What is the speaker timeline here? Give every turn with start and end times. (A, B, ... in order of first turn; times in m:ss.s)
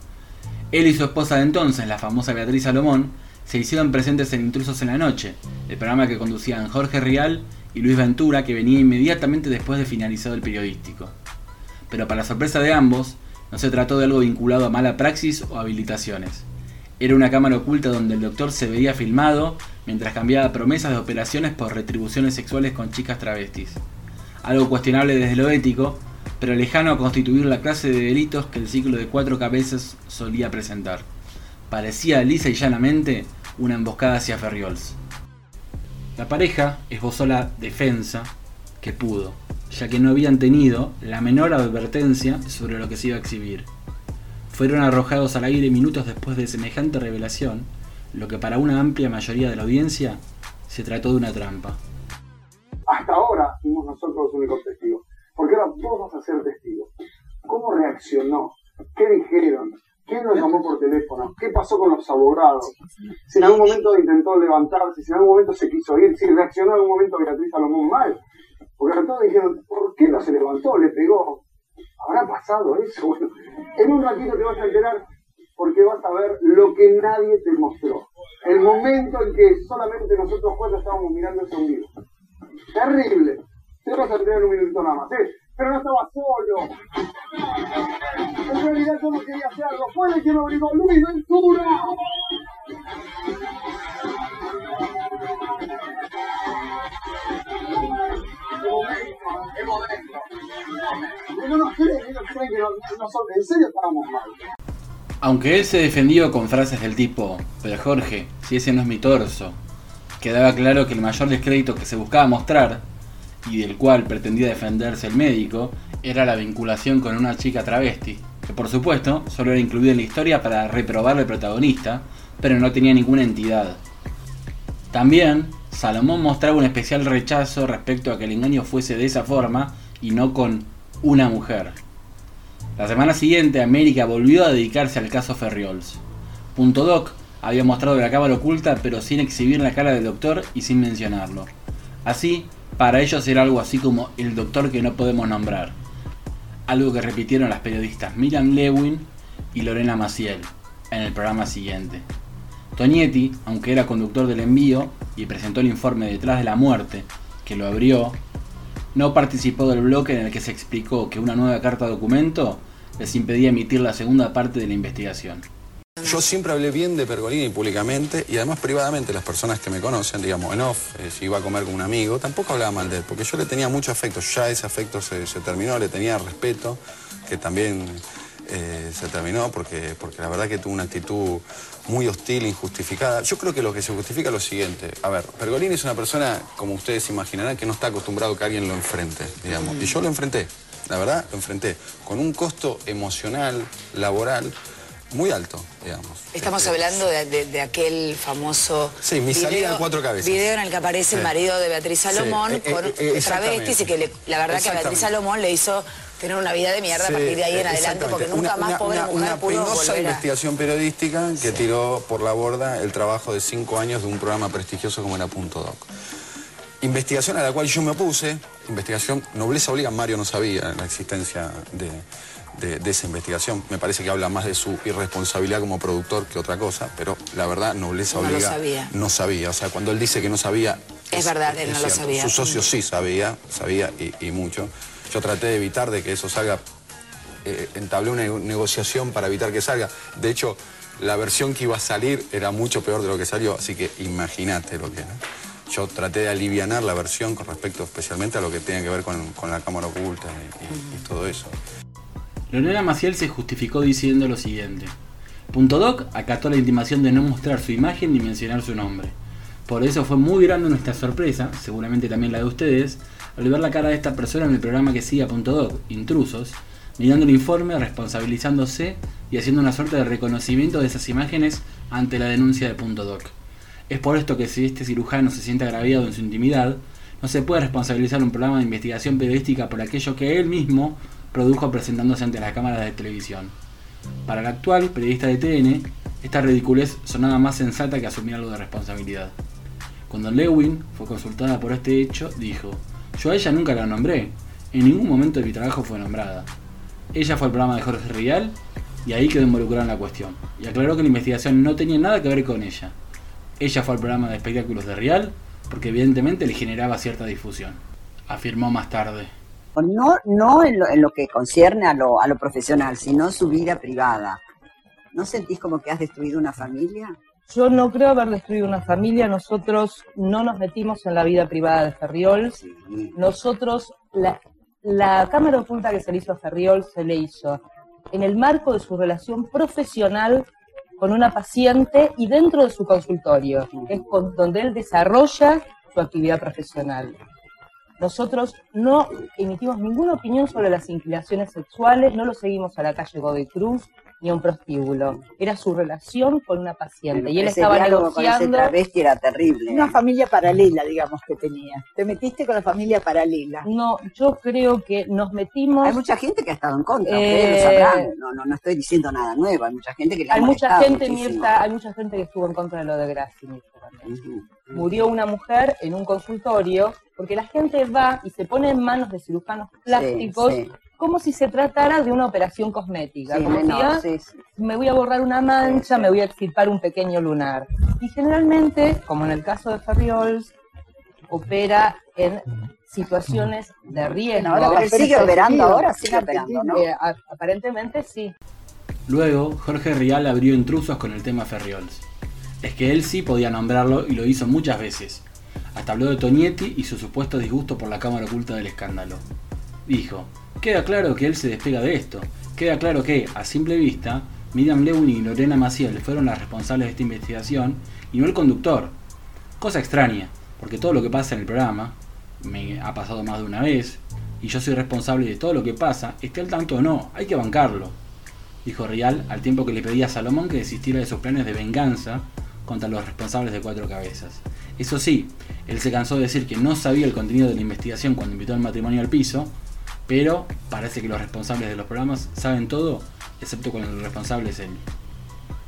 0:00.7-0:11.2 A
0:11.9-0:16.5 A
0:17.0-0:23.8 A
0:24.4-0:31.1 A
0:31.7-0:35.0 A
0:36.2-0:43.7 A
0:44.5-0:51.8 A
0:52.9-0:56.9 B
0:57.5-1:02.7 B
1:03.3-1:08.2 B
1:08.8-1:11.4 B
1:12.0-1:15.0 B
1:15.6-1:21.9 B
1:22.8-1:26.7 B
1:28.5-1:32.0 B
1:38.6-1:40.2 B
1:41.3-1:44.4 B
1:45.2-1:49.6 A
1:50.2-1:52.8 A
1:53.4-2:03.8 A
2:04.9-2:11.8 A
2:12.8-2:16.0 A
2:16.6-2:21.5 A
2:22.0-2:25.8 A
2:26.7-2:32.1 A
2:32.8-2:38.2 A
2:38.9-2:45.4 A
2:46.0-3:14.6 C
3:15.1-3:17.1 C
3:16.3-3:30.2 D
3:19.0-3:21.3 C
3:22.1-3:25.1 C
3:26.9-3:35.8 C
3:36.8-3:42.0 C
3:42.6-3:56.6 C
3:48.1-3:48.9 D
3:51.1-3:52.6 D
3:57.4-4:11.5 C
4:12.5-4:14.9 A
4:15.5-4:19.1 A
4:19.7-4:33.3 A
4:33.9-4:43.5 A
4:44.3-4:49.3 A
4:50.1-4:56.5 A
4:57.1-5:02.9 A
5:03.6-5:09.3 A
5:09.8-5:14.4 E
5:15.1-5:17.2 E
5:17.5-5:22.6 F
5:22.4-5:23.2 E
5:23.2-5:30.5 F
5:31.0-5:37.2 F
5:38.0-5:48.8 F
5:47.1-5:49.9 E
5:49.7-5:51.2 G
5:51.9-5:53.7 G
5:53.6-5:56.0 F
5:55.8-6:01.6 E
5:57.0-5:58.1 F
6:00.3-6:20.6 F
6:04.0-6:04.9 E
6:09.9-6:10.7 E
6:13.3-6:14.4 E
6:15.6-6:16.2 E
6:21.3-6:28.3 F
6:24.4-6:26.8 E
6:29.1-6:32.0 A
6:32.6-6:39.2 A
6:39.9-6:49.0 A
6:49.6-6:58.0 A
6:58.6-7:09.5 A
7:10.1-7:14.9 A